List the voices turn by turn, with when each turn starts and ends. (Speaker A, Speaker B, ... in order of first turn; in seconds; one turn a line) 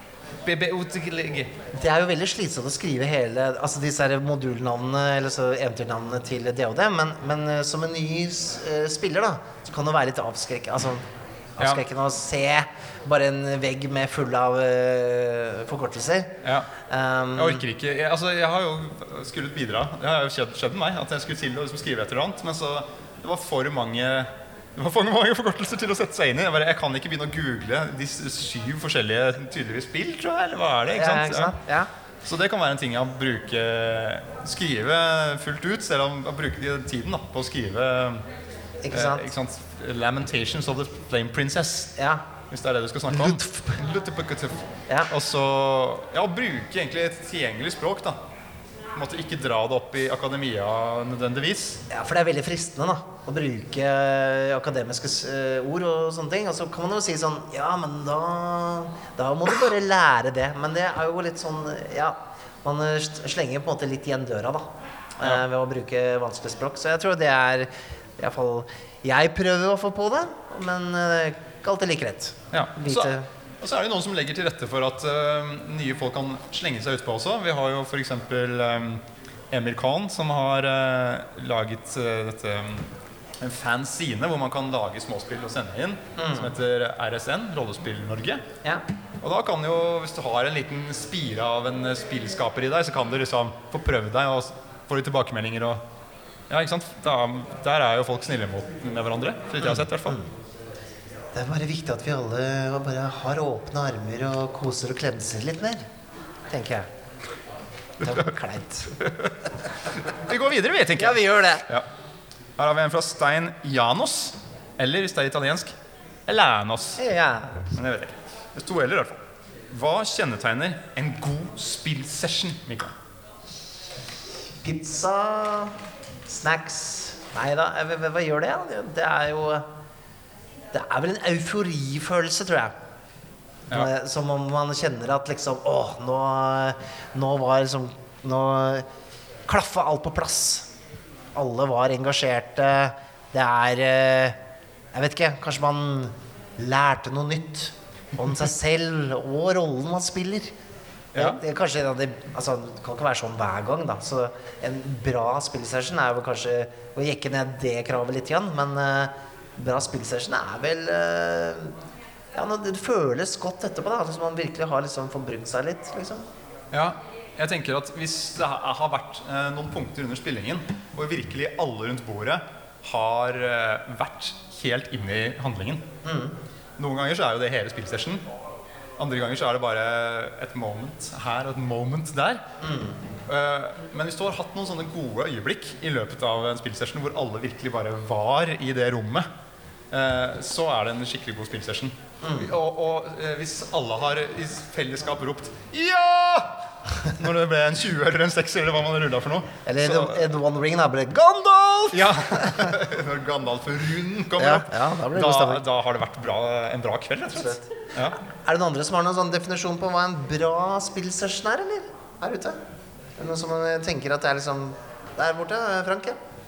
Speaker A: 0.5-1.5
Speaker B: 1.7-11.0
Speaker B: 11.6-16.3
Speaker A: 16.4-16.7
Speaker B: 16.9-17.6
Speaker A: 17.4-31.6
Speaker B: 30.9-31.9
Speaker A: 32.2-38.3
Speaker B: 38.8-39.3
Speaker A: 38.9-41.9
Speaker B: 42.0-42.2
Speaker A: 42.5-48.2
Speaker B: 43.1-43.8
Speaker A: 48.9-51.8
Speaker B: 51.9-73.3
Speaker A: 72.5-88.4
Speaker B: 86.2-86.5
Speaker A: 89.2-95.8
Speaker A: 96.5-100.2
Speaker B: 99.6-100.3
Speaker B: 101.3-105.9
Speaker B: 106.5-106.9
Speaker B: 108.0-108.9
Speaker A: 109.0-109.3
Speaker A: 110.1-111.9
Speaker B: 111.0-111.7
Speaker A: 112.6-115.8
Speaker A: 116.3-117.0
Speaker B: 117.0-117.7
Speaker A: 117.7-123.0
Speaker B: 124.6-125.8
Speaker B: 126.3-129.7
Speaker B: 130.7-132.8
Speaker B: 133.7-138.9
Speaker B: 139.5-140.7
Speaker B: 141.3-144.4
Speaker B: 144.9-150.5
Speaker B: 151.1-161.8
Speaker A: 151.2-151.4
Speaker B: 162.3-166.2
Speaker A: 166.7-175.9
Speaker B: 176.0-176.3
Speaker A: 176.8-178.2
Speaker A: 179.0-182.4
Speaker B: 182.6-183.0
Speaker A: 183.3-189.3
Speaker A: 189.9-200.3
Speaker B: 192.2-192.5
Speaker B: 199.7-202.8
Speaker A: 201.9-208.2
Speaker B: 204.4-205.6
Speaker B: 207.3-207.7
Speaker B: 208.3-212.6
Speaker B: 213.2-216.2